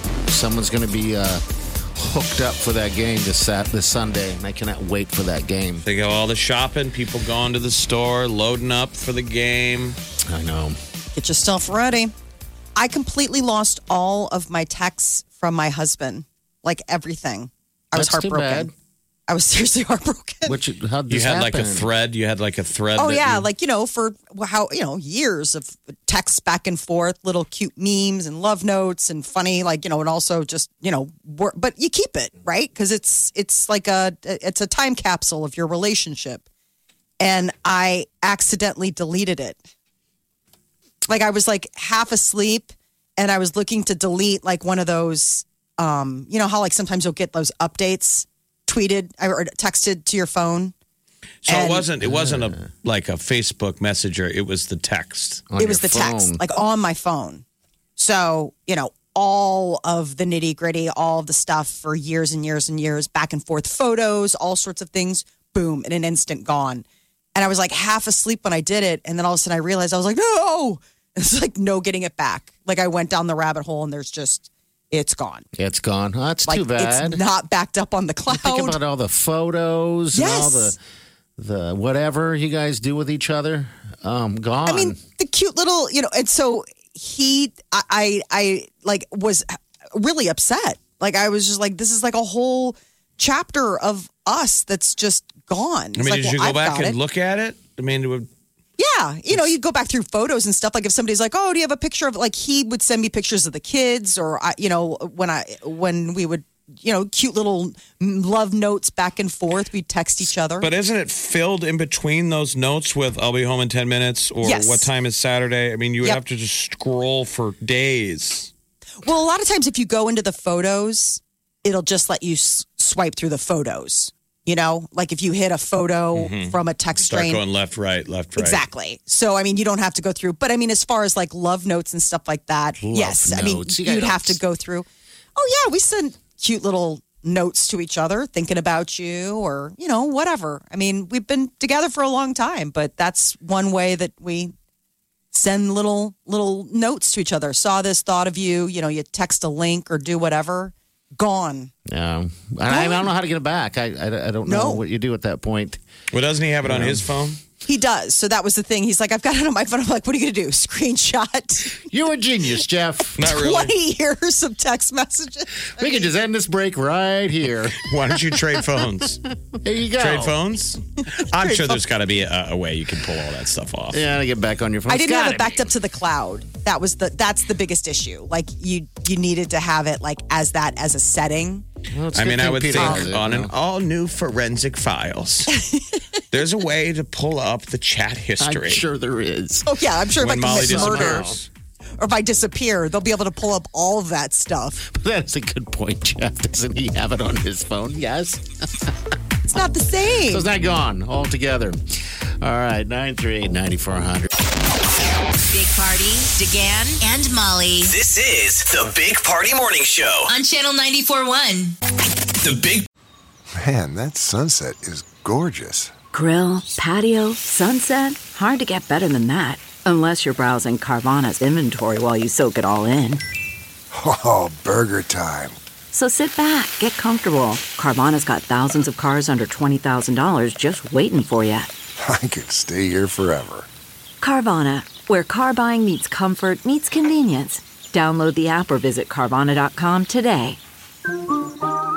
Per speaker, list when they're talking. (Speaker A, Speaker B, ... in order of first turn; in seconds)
Speaker A: 0.3-5.8, 10.3-10.8, 17.9-18.7, 20.4-21.9, 52.0-52.6, 55.5-56.4, 75.5-77.2, 78.3-80.8, 81.4-85.0, 132.8-134.4, 151.9-155.8, 156.6-157.1, 161.8-163.2, 165.8-168.6, 169.5-170.4, 173.9-175.7, 181.9-183.5, 188.4-189.8, 190.4-191.4, 194.8-198.9, 200.3-201.8, 202.4-204.3
Speaker B: 5.8-10.0, 21.1-23.5, 51.5-55.5, 95.9-98.3, 110.6-118.5, 126.1-128.6, 156.1-157.4, 163.2-163.7, 167.8-169.2, 170.0-174.0, 182.1-185.5, 186.3-188.8, 190.2-191.5
Speaker C: 11.2-12.1, 12.8-18.7, 19.3-20.6, 22.9-36.4, 37.2-39.6, 41.1-50.7, 51.5-51.9, 55.6-57.4, 58.0-75.5, 76.5-78.8, 80.1-80.8, 84.7-97.0, 98.8-110.7, 114.4-114.9, 119.0-127.4, 128.4-144.5, 145.3-151.7, 152.7-153.1, 154.4-154.8, 157.6-161.8, 163.2-166.1, 171.3-171.8, 174.9-181.6, 182.8-183.1, 185.6-186.0, 189.7-191.3, 192.0-194.8, 199.5-200.4
Speaker D: 205.5-207.9, 210.3-211.8
Speaker E: 207.8-210.3, 212.4-212.9
Speaker F: 213.5-215.9, 223.9-225.6, 232.0-233.7
Speaker G: 216.1-223.2, 225.9-231.7, 234.2-240.6